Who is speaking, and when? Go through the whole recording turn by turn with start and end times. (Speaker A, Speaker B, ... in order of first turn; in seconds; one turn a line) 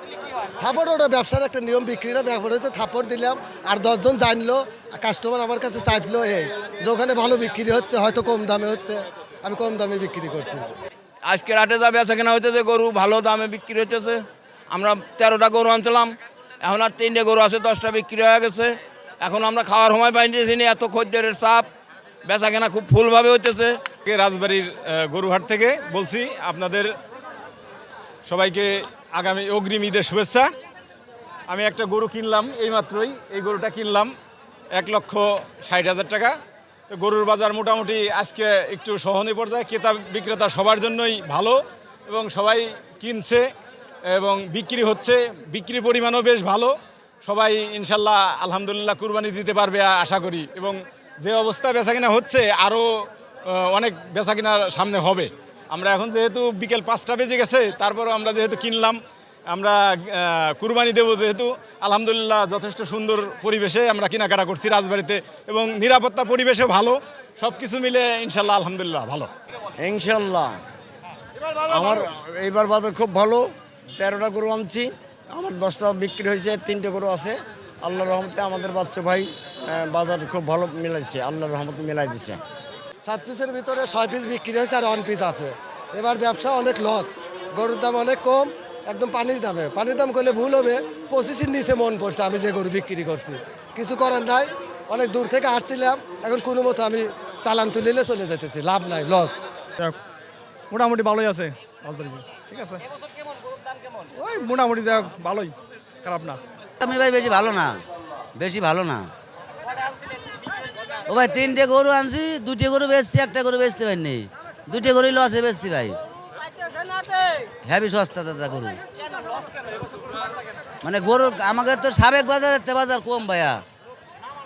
Speaker A: 0.6-10.7
Speaker B: 11.3-21.7
Speaker B: 22.2-23.8
Speaker C: 24.1-26.9
Speaker C: 28.2-30.5
Speaker C: 31.5-34.1
Speaker C: 34.7-36.3
Speaker C: 36.9-43.4
Speaker C: 44.1-59.0
Speaker C: 59.5-69.3
Speaker D: 69.8-70.6
Speaker D: 71.7-82.4
Speaker A: 83.0-99.4
Speaker E: 100.7-102.8
Speaker E: 104.2-106.4
Speaker F: 106.8-107.8
Speaker F: 108.3-109.1
Speaker F: 111.1-116.0
Speaker F: 117.6-118.8
Speaker F: 120.8-123.6